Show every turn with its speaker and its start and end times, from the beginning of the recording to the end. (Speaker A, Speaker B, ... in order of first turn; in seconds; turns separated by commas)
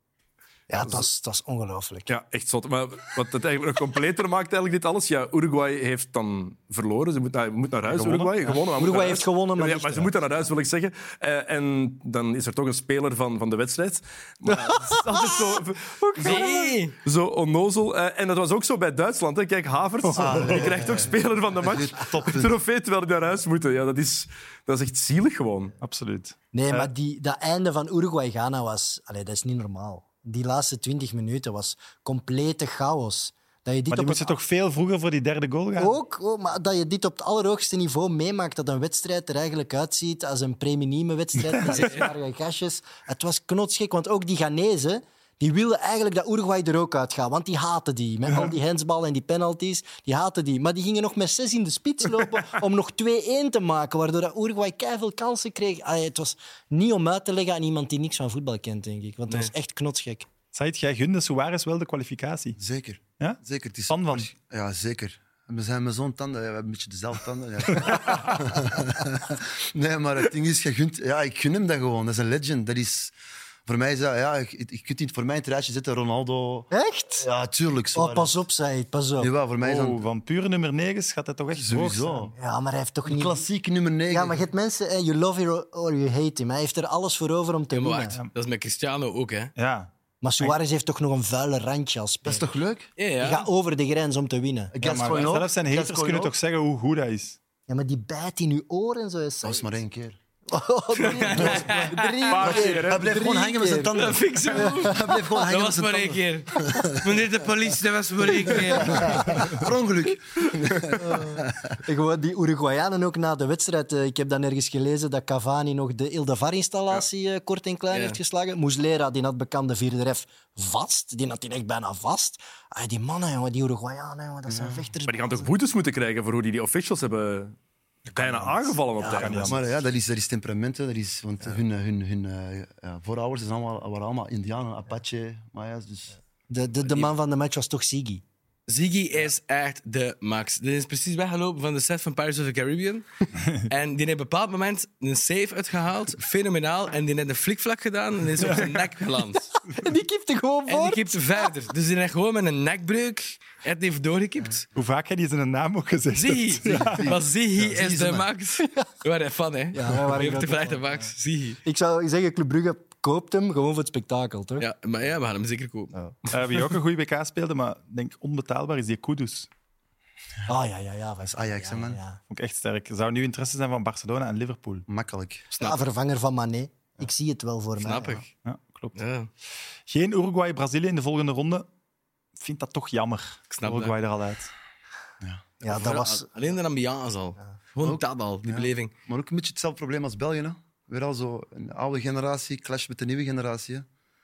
Speaker A: 0.7-2.1, Speaker B: 0.8-1.1, Speaker B: 2.1-25.7, Speaker C: 7.9-8.6, Speaker A: 8.7-10.1, Speaker D: 15.1-15.6, Speaker D: 16.1-16.9, Speaker A: 16.2-16.5, Speaker C: 20.0-20.6, Speaker E: 20.1-22.6, Speaker C: 25.8-26.4, Speaker A: 26.5-34.4, Speaker C: 33.9-36.0, Speaker A: 35.8-60.3, Speaker C: 41.4-41.9, Speaker D: 41.7-42.0, Speaker C: 60.5-62.6, Speaker E: 62.6-73.1, Speaker C: 63.2-64.3, Speaker C: 67.9-68.3, Speaker E: 73.7-78.4, Speaker A: 76.7-77.3, Speaker A: 77.9-79.3, Speaker E: 79.2-80.0, Speaker C: 79.6-82.3, Speaker E: 81.5-82.3, Speaker A: 82.4-83.4, Speaker E: 83.0-84.4, Speaker A: 84.1-88.2, Speaker D: 87.7-89.5, Speaker C: 89.6-90.5, Speaker A: 90.2-92.5, Speaker E: 92.2-92.9, Speaker D: 93.0-93.5, Speaker A: 93.2-94.7, Speaker E: 94.7-96.3, Speaker C: 94.8-97.4, Speaker A: 97.7-99.7, Speaker E: 99.4-100.2, Speaker A: 100.5-103.9, Speaker D: 100.9-102.2, Speaker E: 101.3-107.2, Speaker B: 102.3-103.1, Speaker D: 103.9-109.3, Speaker A: 104.5-105.4, Speaker E: 108.6-111.7, Speaker A: 108.7-109.2, Speaker A: 111.0-125.5, Speaker D: 117.9-118.2, Speaker E: 124.5-124.9, Speaker B: 125.1-127.5, Speaker B: 128.1-129.6, Speaker A: 128.2-129.6, Speaker C: 129.1-129.6, Speaker E: 129.4-136.2, Speaker A: 136.5-138.2, Speaker D: 138.7-149.5, Speaker A: 149.7-151.5, Speaker D: 150.7-154.7, Speaker C: 154.7-157.1, Speaker D: 156.1-161.6, Speaker E: 157.6-158.3, Speaker A: 159.7-161.0, Speaker A: 161.6-164.7, Speaker D: 164.6-165.9, Speaker C: 166.3-169.5, Speaker A: 170.5-172.2, Speaker E: 171.3-172.0, Speaker C: 172.3-174.9, Speaker E: 174.9-175.5, Speaker D: 175.5-175.8, Speaker A: 175.6-178.2, Speaker D: 177.8-178.3, Speaker C: 178.4-179.0, Speaker D: 178.9-179.3, Speaker C: 179.9-181.7, Speaker C: 182.4-184.5, Speaker D: 183.5-183.9, Speaker A: 185.6-186.3, Speaker D: 185.6-188.9, Speaker E: 187.8-193.9